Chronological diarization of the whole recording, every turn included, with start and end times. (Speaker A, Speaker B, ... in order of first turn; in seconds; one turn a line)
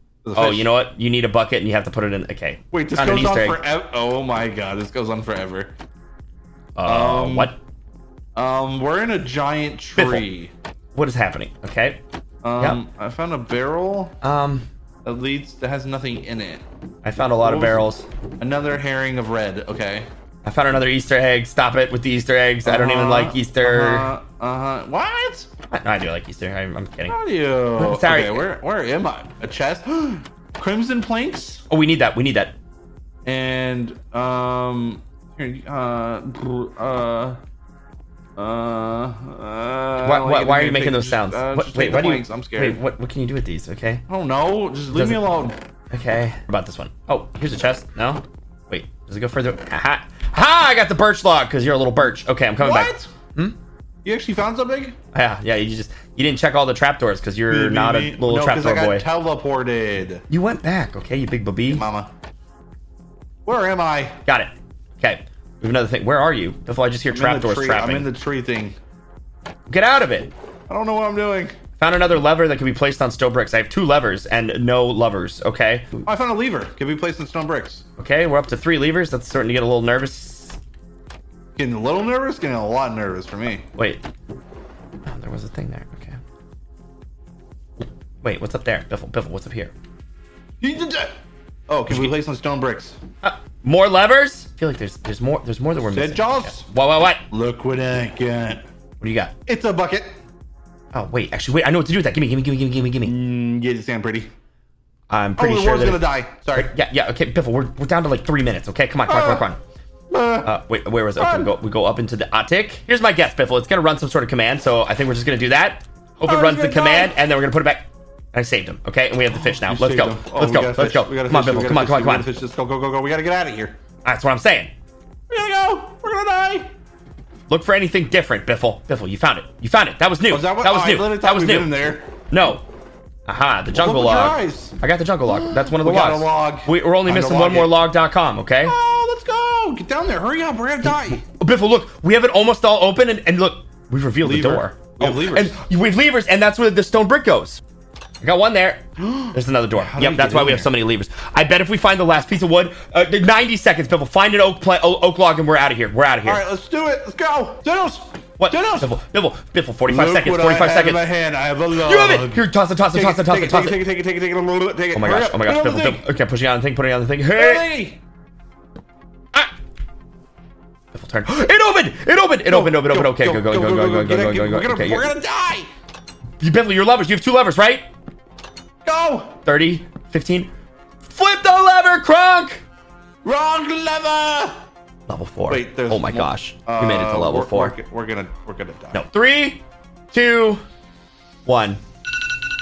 Speaker A: 0.2-0.7
Speaker B: 0.3-3.6
Speaker A: 2.7-5.7
Speaker B: 6.8-7.6
Speaker A: 6.8-7.5
Speaker A: 8.3-10.5
Speaker B: 9.9-10.2
Speaker B: 10.9-12.0
Speaker A: 12.4-14.2
Speaker B: 14.2-14.7
Speaker A: 15.0-16.6
Speaker B: 17.0-18.0
Speaker A: 17.4-17.9
Speaker A: 18.4-20.1
Speaker B: 20.4-24.1
Speaker A: 22.6-25.5
Speaker B: 25.7-27.2
Speaker A: 27.1-31.6
Speaker B: 27.7-28.5
Speaker B: 31.7-32.5
Speaker A: 33.2-37.4
Speaker A: 38.4-42.8
Speaker B: 40.0-44.0
Speaker A: 44.1-45.5
Speaker B: 44.9-45.3
Speaker B: 45.9-53.5
Speaker A: 52.6-53.1
Speaker A: 54.0-55.0
Speaker B: 55.1-59.0
Speaker A: 57.5-60.2
Speaker B: 60.3-61.9
Speaker A: 61.7-62.1
Speaker A: 63.5-64.2
Speaker B: 64.2-68.1
Speaker A: 67.1-68.8
Speaker B: 69.7-70.3
Speaker A: 70.7-71.5
Speaker B: 71.8-76.0
Speaker A: 76.0-77.8
Speaker B: 78.0-80.6
Speaker A: 81.5-83.6
Speaker B: 83.7-84.0
Speaker B: 85.0-86.2
Speaker B: 88.2-89.7
Speaker A: 90.6-91.1
Speaker A: 91.7-93.0
Speaker B: 93.2-97.2
Speaker A: 95.8-96.7
Speaker A: 97.3-98.6
Speaker B: 99.0-99.3
Speaker A: 99.5-100.1
Speaker B: 100.9-103.1
Speaker A: 103.0-104.3
Speaker B: 105.1-109.6
Speaker A: 105.4-106.7
Speaker A: 109.1-109.5
Speaker A: 110.1-110.5
Speaker B: 110.4-122.3
Speaker A: 111.2-111.5
Speaker A: 116.2-117.2
Speaker A: 119.3-123.7
Speaker B: 124.0-124.7
Speaker A: 125.3-126.7
Speaker B: 127.5-131.7
Speaker A: 130.3-132.1
Speaker B: 132.3-132.6
Speaker B: 133.3-138.7
Speaker A: 133.7-137.8
Speaker A: 138.6-141.2
Speaker B: 140.8-147.6
Speaker A: 144.2-145.6
Speaker B: 148.2-156.4
Speaker A: 149.0-150.7
Speaker A: 156.2-158.9
Speaker B: 158.4-161.0
Speaker A: 159.9-166.0
Speaker B: 161.7-163.8
Speaker B: 164.9-167.7
Speaker A: 167.3-168.0
Speaker B: 170.9-175.1
Speaker A: 172.4-175.7
Speaker B: 176.4-177.9
Speaker A: 178.8-179.4
Speaker B: 179.4-180.5
Speaker B: 181.0-182.6
Speaker A: 183.2-184.6
Speaker B: 185.1-187.7
Speaker A: 185.5-189.0
Speaker B: 188.9-190.6
Speaker B: 191.4-191.8